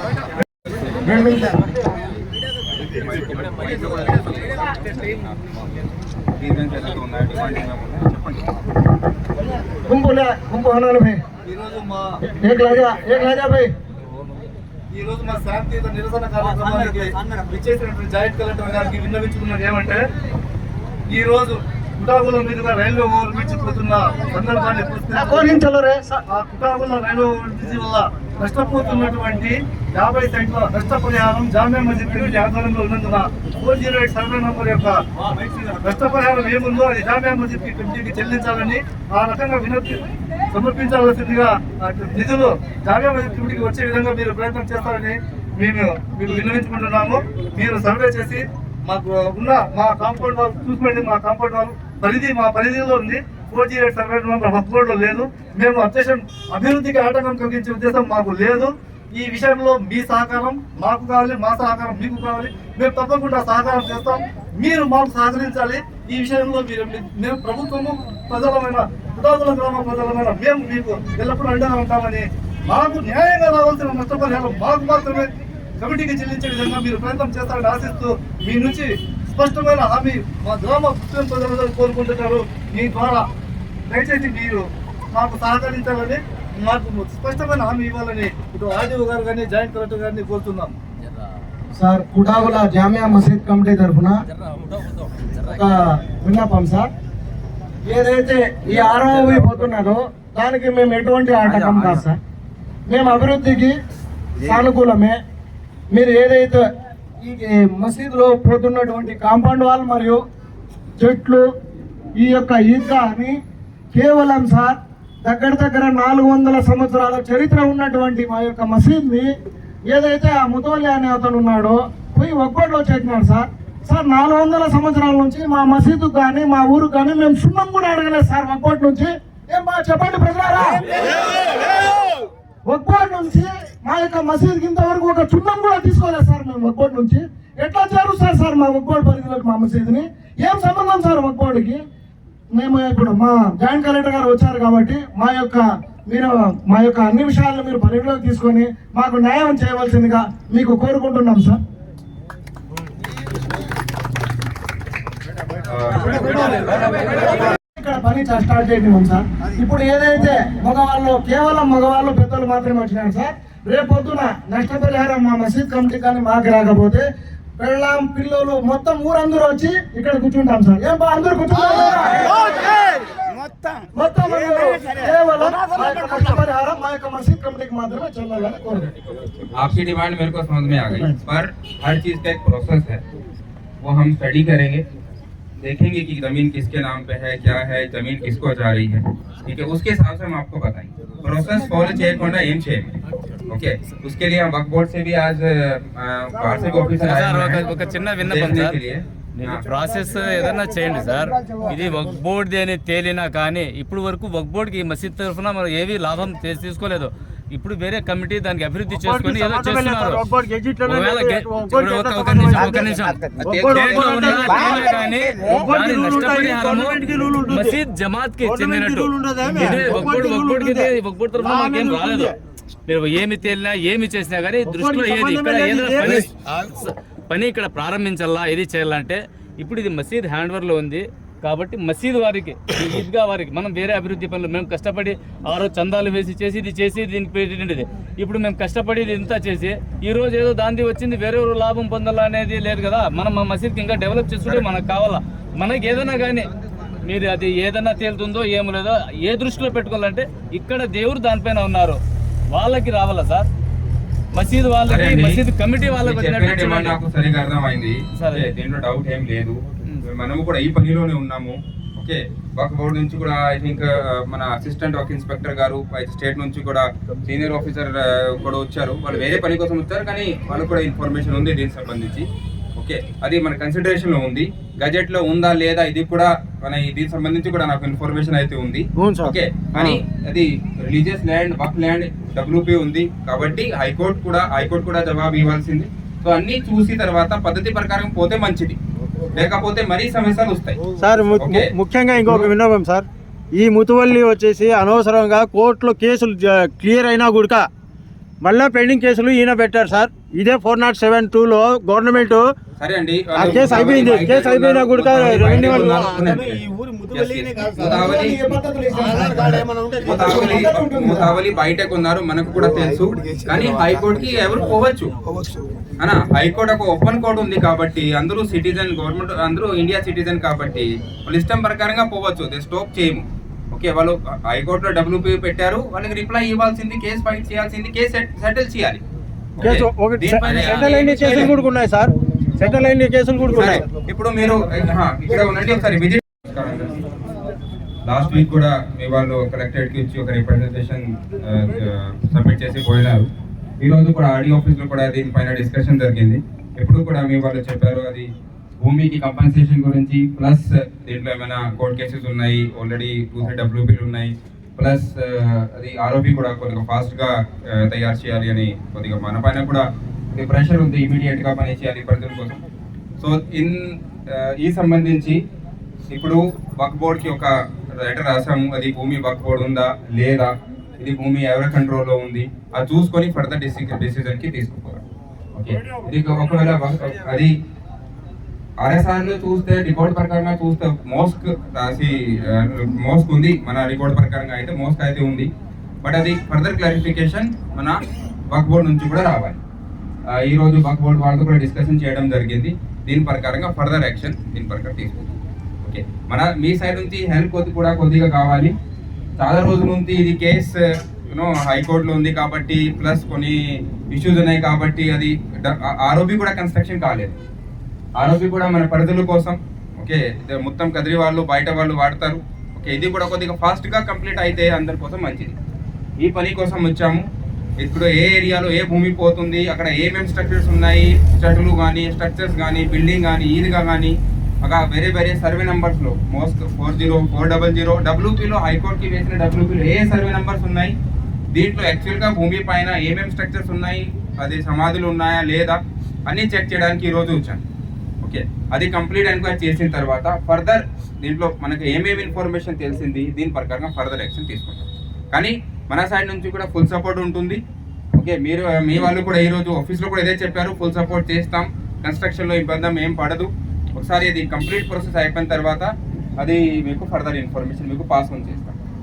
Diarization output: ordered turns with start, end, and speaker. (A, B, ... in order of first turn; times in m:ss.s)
0:01.0-0:01.6 A
0:02.8-0:05.4 B
0:06.4-0:08.4 B
0:09.9-0:11.2 A
0:11.5-0:12.1 C
0:12.3-0:13.7 A
0:14.9-0:20.0 C
0:21.1-0:25.6 C
0:25.1-0:26.2 A
0:26.3-0:40.0 C
0:40.5-1:15.3 C
1:15.8-1:23.2 C
1:23.9-1:24.6 C
1:25.1-1:30.7 C
1:31.8-1:34.2 A
1:35.4-1:36.9 A
1:37.9-1:42.2 A
1:41.4-1:42.0 B
1:42.9-1:43.8 A
1:44.4-1:45.2 A
1:45.9-1:46.6 A
1:47.2-1:50.2 A
1:51.0-1:51.4 A
1:52.2-1:53.4 A
1:53.9-1:59.3 A
1:59.9-2:10.8 A
2:12.7-2:21.8 A
2:22.5-2:31.6 A
2:35.7-2:36.6 B
2:37.8-2:47.0 A
2:47.6-2:52.3 A
2:54.0-2:58.9 A
2:59.5-3:03.0 B
3:03.8-3:04.8 B
3:05.6-3:12.9 B
3:13.5-3:17.6 B
3:17.0-3:18.8 D
3:18.2-3:19.6 B
3:19.4-3:30.2 D
3:28.9-3:37.8 E
3:30.8-3:42.3 D
3:33.4-3:34.3 B
3:38.4-3:42.3 E
3:42.9-4:06.5 D
3:44.6-3:46.3 E
4:07.0-4:12.0 D
4:12.5-4:13.5 D
4:14.3-4:17.0 D
4:14.8-4:15.4 B
4:16.0-4:32.2 B
4:18.2-4:18.5 D
4:32.8-4:48.8 B
4:39.0-4:40.0 E
4:49.3-4:50.8 B
4:51.0-4:57.6 E
4:51.4-4:52.5 B
4:58.4-5:02.4 E
5:02.8-5:08.5 B
5:03.3-5:06.0 E
5:07.8-5:11.4 A
5:10.0-5:15.1 B
5:16.0-5:29.0 B
5:29.6-5:31.5 B
5:29.6-5:33.8 E
5:33.5-5:37.0 B
5:38.0-5:43.3 B
5:43.8-5:48.3 B
5:48.8-6:02.6 B
6:03.2-6:05.4 B
6:06.1-6:15.0 B
6:15.5-6:17.5 B
6:18.8-6:25.5 B
6:26.0-6:29.6 B
6:30.3-6:35.2 B
6:35.8-6:38.7 B
6:39.4-6:40.8 B
6:41.3-6:43.6 B
6:44.1-6:47.4 B
6:48.2-6:55.5 B
6:56.2-6:57.2 B
6:57.8-7:10.9 B
7:11.5-7:17.6 B
7:18.2-7:27.6 B
7:28.2-7:38.8 B